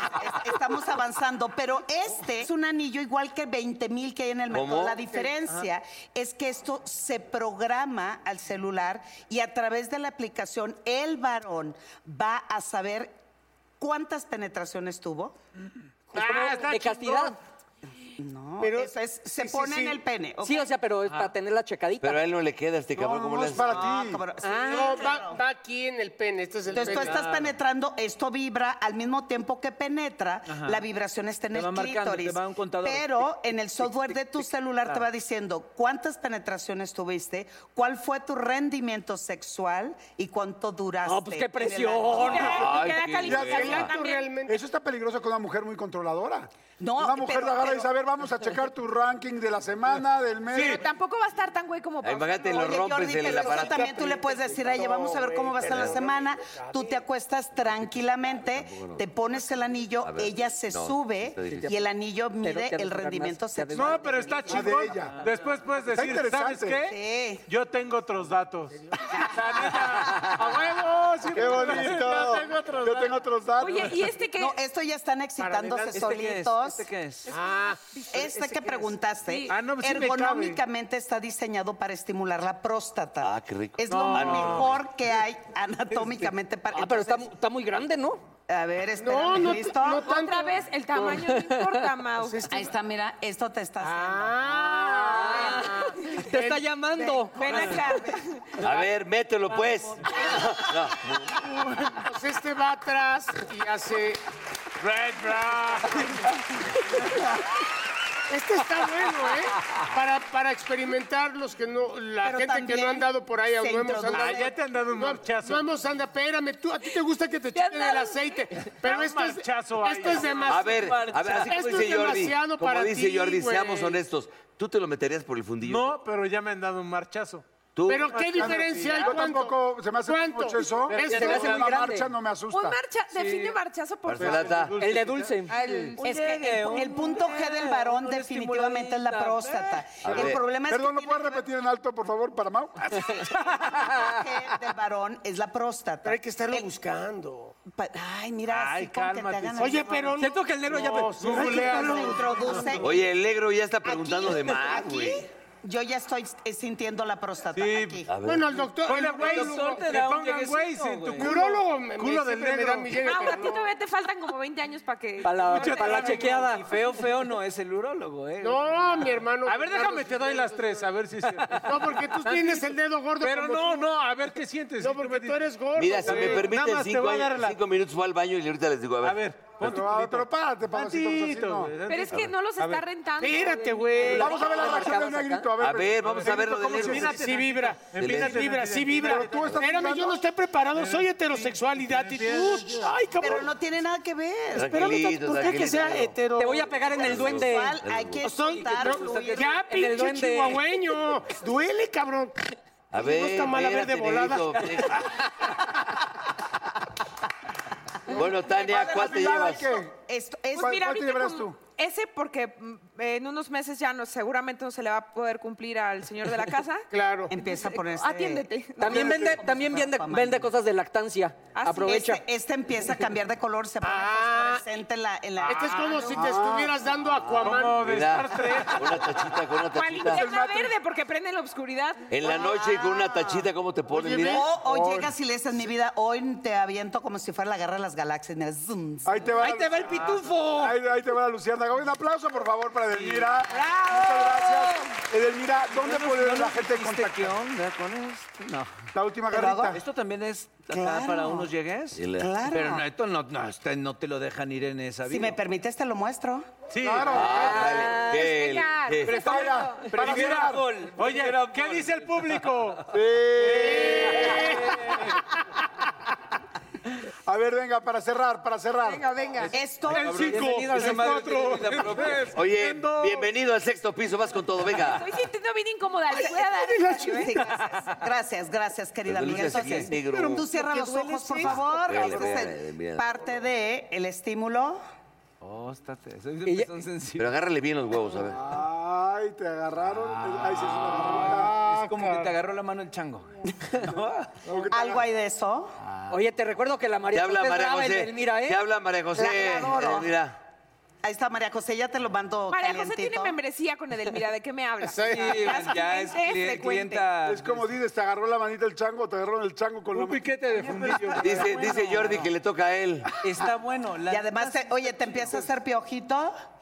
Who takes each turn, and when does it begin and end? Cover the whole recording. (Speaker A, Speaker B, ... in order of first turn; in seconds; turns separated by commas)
Speaker A: 0.1-13.1, Speaker B: 4.5-5.1, Speaker A: 13.8-15.4, Speaker C: 16.1-17.3, Speaker D: 16.1-17.4, Speaker A: 18.2-20.8, Speaker C: 18.6-20.0, Speaker D: 20.4-22.2, Speaker B: 22.0-23.8, Speaker E: 22.9-24.2, Speaker F: 23.6-24.0, Speaker A: 23.6-25.4, Speaker D: 24.4-24.9, Speaker C: 24.6-27.3, Speaker F: 26.7-27.6, Speaker A: 26.7-42.6, Speaker F: 30.4-30.9, Speaker F: 31.5-34.2, Speaker F: 34.8-35.1, Speaker D: 41.0-42.7, Speaker G: 42.2-44.3, Speaker B: 42.4-43.9, Speaker E: 43.2-43.9, Speaker C: 43.4-44.6, Speaker E: 44.5-50.8, Speaker A: 46.8-47.9, Speaker G: 50.5-52.8, Speaker B: 52.0-54.0, Speaker A: 52.5-64.2, Speaker C: 53.2-57.0, Speaker B: 55.6-56.1, Speaker B: 57.6-59.0, Speaker B: 60.0-61.8, Speaker D: 62.4-64.6, Speaker H: 63.7-73.1, Speaker E: 64.5-65.1, Speaker F: 65.0-65.7, Speaker E: 65.9-66.8, Speaker A: 66.8-67.5, Speaker E: 71.3-74.1, Speaker C: 71.6-73.0, Speaker G: 73.6-74.6, Speaker A: 74.2-76.9, Speaker C: 75.4-76.1, Speaker F: 75.9-77.3, Speaker C: 77.3-77.8, Speaker G: 77.9-79.6, Speaker A: 78.1-87.3, Speaker H: 79.5-80.6, Speaker B: 83.2-84.8, Speaker C: 83.9-84.6, Speaker D: 86.7-88.3, Speaker A: 88.5-90.1, Speaker C: 89.0-91.2, Speaker G: 89.9-92.5, Speaker C: 92.2-92.7, Speaker A: 92.5-94.3, Speaker C: 93.8-96.7, Speaker D: 95.0-97.7, Speaker A: 95.1-96.2, Speaker A: 96.9-98.2, Speaker G: 97.3-98.5, Speaker B: 98.6-101.4, Speaker C: 102.0-104.2, Speaker H: 104.8-106.1, Speaker C: 108.3-120.9, Speaker A: 112.2-114.5, Speaker H: 114.1-115.6, Speaker G: 117.5-118.3, Speaker H: 118.8-120.5, Speaker G: 120.2-120.5, Speaker F: 120.5-121.7, Speaker B: 120.5-125.9, Speaker C: 121.4-124.0, Speaker H: 125.6-127.4, Speaker B: 127.8-128.7, Speaker C: 127.9-131.7, Speaker E: 128.3-132.8, Speaker H: 128.4-129.2, Speaker H: 130.9-131.9, Speaker D: 131.0-132.1, Speaker G: 132.5-134.7, Speaker F: 133.1-133.6, Speaker B: 134.1-134.8, Speaker E: 134.2-134.7, Speaker H: 134.7-135.5, Speaker D: 134.8-135.5, Speaker G: 135.5-136.8, Speaker F: 136.0-139.8, Speaker A: 136.7-141.4, Speaker B: 140.0-140.4, Speaker E: 140.1-143.1, Speaker A: 143.0-146.7, Speaker D: 143.7-144.0, Speaker C: 146.0-147.6, Speaker A: 147.7-150.0, Speaker H: 148.5-150.2, Speaker C: 149.6-152.8, Speaker D: 150.2-151.4, Speaker H: 151.2-153.0, Speaker A: 151.4-152.9, Speaker B: 152.8-155.3, Speaker A: 153.8-158.1, Speaker H: 157.5-158.0, Speaker B: 158.1-158.7, Speaker C: 158.2-159.9, Speaker H: 158.9-163.0, Speaker F: 158.9-161.4, Speaker C: 161.2-163.7, Speaker G: 163.0-166.3, Speaker D: 165.2-166.6, Speaker H: 165.4-166.5, Speaker F: 165.9-169.1, Speaker C: 168.4-170.9, Speaker H: 169.4-175.5, Speaker C: 171.7-173.9, Speaker C: 174.8-176.5, Speaker B: 175.8-179.2, Speaker H: 176.0-177.6, Speaker H: 179.0-182.8, Speaker E: 179.6-181.7, Speaker G: 181.9-184.9, Speaker C: 183.2-184.4, Speaker D: 184.1-185.4, Speaker E: 184.1-187.2, Speaker B: 185.6-187.2, Speaker H: 186.0-189.4, Speaker C: 186.9-193.5, Speaker B: 187.9-188.6, Speaker E: 188.9-190.2, Speaker B: 189.4-189.6, Speaker H: 190.7-192.9, Speaker A: 193.2-194.8, Speaker B: 194.5-196.2, Speaker C: 194.6-196.9, Speaker D: 196.4-197.8, Speaker A: 196.9-199.6, Speaker B: 197.0-198.3, Speaker C: 198.2-202.4, Speaker D: 198.8-200.6, Speaker B: 202.9-205.1, Speaker C: 202.9-204.9, Speaker B: 208.1-209.8, Speaker E: 208.5-209.9, Speaker A: 208.5-211.0, Speaker E: 210.5-211.6, Speaker G: 210.5-219.3, Speaker C: 216.9-217.3, Speaker A: 217.3-220.5, Speaker D: 218.8-222.2, Speaker E: 218.9-219.4, Speaker G: 221.6-222.1, Speaker A: 221.8-226.2, Speaker C: 223.8-224.6, Speaker C: 225.4-228.1, Speaker H: 225.5-225.9, Speaker E: 226.1-226.7, Speaker B: 227.2-230.2, Speaker H: 227.4-229.0, Speaker G: 229.7-232.1, Speaker E: 230.1-230.7, Speaker B: 232.1-234.4, Speaker C: 232.4-232.8, Speaker C: 233.9-234.5, Speaker A: 234.3-239.5, Speaker E: 234.6-235.1, Speaker E: 239.1-240.0, Speaker D: 239.4-240.8, Speaker F: 239.9-240.2, Speaker E: 240.6-247.4, Speaker F: 242.9-243.3, Speaker G: 243.5-244.9, Speaker F: 245.7-248.9, Speaker E: 248.9-249.8, Speaker A: 249.3-249.8, Speaker F: 249.5-255.4, Speaker A: 250.7-251.5, Speaker B: 251.9-252.4, Speaker A: 252.1-252.9, Speaker A: 255.1-256.5, Speaker H: 256.7-257.8, Speaker E: 256.8-257.6, Speaker B: 257.1-259.5, Speaker D: 257.4-259.1, Speaker G: 258.0-259.9, Speaker E: 259.1-260.6, Speaker F: 259.8-262.6, Speaker H: 260.1-260.4, Speaker H: 260.9-262.9, Speaker E: 262.9-264.6, Speaker H: 263.5-264.9, Speaker C: 263.5-264.6, Speaker E: 267.3-269.2, Speaker G: 268.9-269.3, Speaker C: 269.2-269.4, Speaker A: 269.5-270.4, Speaker H: 269.9-273.3, Speaker F: 269.9-272.4, Speaker C: 271.1-271.6, Speaker B: 272.3-275.1, Speaker G: 274.8-277.4, Speaker C: 276.1-277.2, Speaker A: 276.9-284.8, Speaker B: 279.1-280.5, Speaker F: 279.5-279.8, Speaker C: 280.8-281.4, Speaker B: 281.4-283.1, Speaker F: 282.0-282.3, Speaker F: 285.4-287.4, Speaker B: 287.2-288.4, Speaker E: 288.3-291.5, Speaker F: 290.0-294.4, Speaker C: 291.4-292.3, Speaker E: 294.4-295.0, Speaker A: 294.7-295.7, Speaker D: 296.1-298.6, Speaker B: 297.1-300.4, Speaker A: 299.1-300.1, Speaker A: 301.0-303.4, Speaker G: 302.5-307.0, Speaker F: 304.9-307.6, Speaker E: 307.2-311.1, Speaker H: 309.9-311.7, Speaker B: 311.2-313.1, Speaker F: 311.4-312.2, Speaker F: 313.2-315.5, Speaker A: 314.1-316.4